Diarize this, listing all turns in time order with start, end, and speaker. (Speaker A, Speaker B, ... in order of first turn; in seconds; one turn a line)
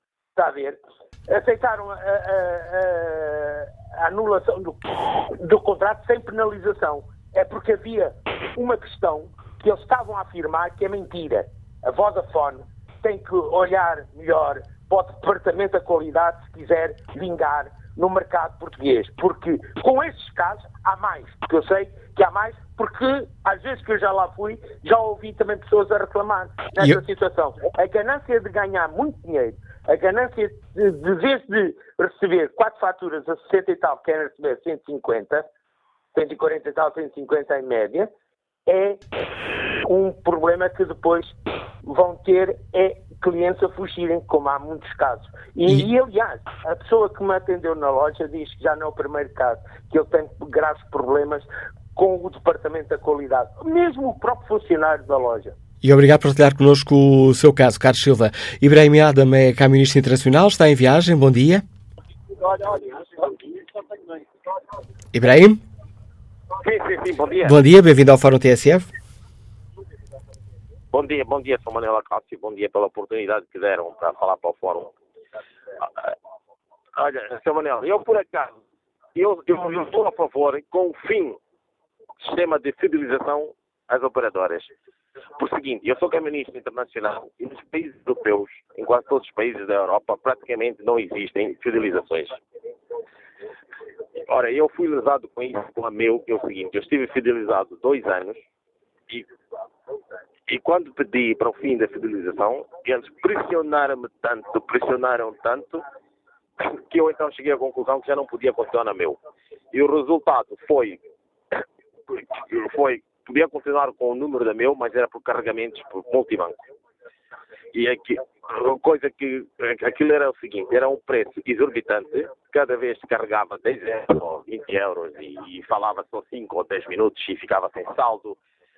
Speaker A: 0.3-35.5
Speaker A: 36.1-38.1
Speaker A: 38.7-39.0
Speaker A: 39.8-55.5
Speaker B: 55.8-61.6
Speaker C: 62.6-62.9
Speaker B: 65.1-65.6
Speaker C: 66.6-67.5
Speaker B: 67.4-68.9
Speaker C: 70.9-74.9
Speaker C: 77.0-78.5
Speaker C: 79.1-81.4
Speaker C: 82.2-84.7
Speaker C: 85.3-92.4
Speaker C: 94.2-98.4
Speaker C: 100.5-105.8
Speaker C: 106.6-109.2
Speaker C: 109.7-111.0
Speaker C: 112.3-116.6
Speaker C: 117.7-128.4